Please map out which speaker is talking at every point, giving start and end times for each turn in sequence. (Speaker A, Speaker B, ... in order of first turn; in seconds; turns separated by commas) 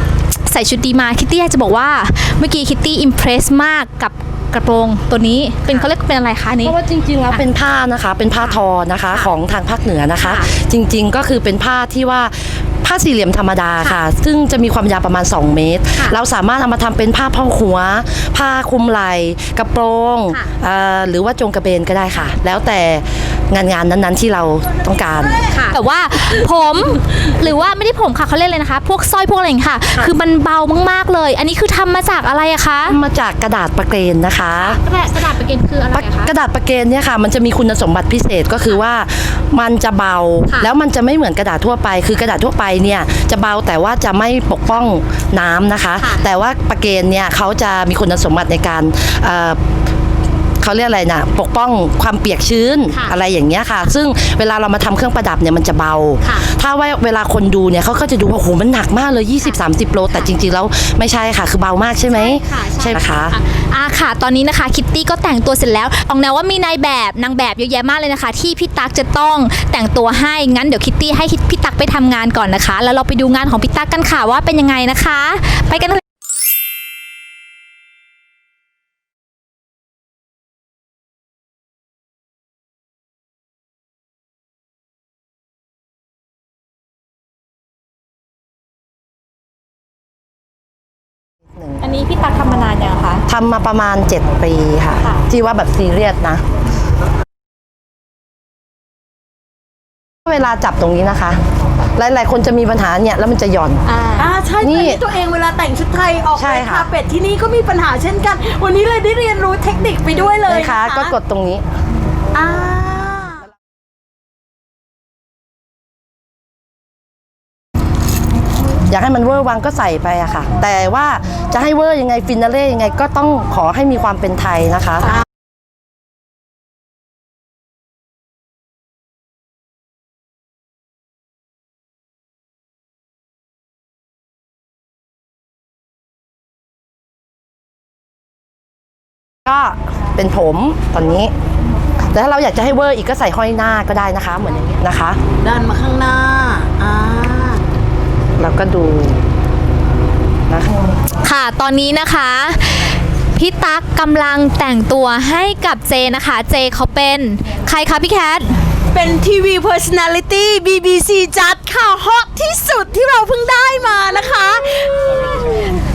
Speaker A: 0.3-6.8, Speaker B: 6.6-25.6, Speaker A: 25.6-33.0, Speaker B: 32.9-34.8, Speaker A: 34.6-36.3, Speaker B: 35.9-49.6, Speaker B: 50.6-63.4, Speaker A: 62.1-76.0, Speaker B: 91.5-91.8, Speaker A: 91.8-93.2, Speaker B: 93.3-96.4, Speaker B: 100.3-101.4, Speaker B: 102.0-103.8, Speaker A: 103.9-104.3, Speaker C: 104.2-111.2, Speaker B: 104.6-105.0, Speaker B: 106.4-106.9, Speaker B: 110.5-111.6, Speaker C: 112.3-113.5, Speaker B: 118.9-125.1, Speaker B: 139.5-141.3, Speaker B: 142.1-145.2, Speaker C: 145.4-147.6, Speaker B: 148.4-149.2, Speaker B: 150.5-150.9, Speaker A: 151.2-158.5, Speaker C: 158.9-165.7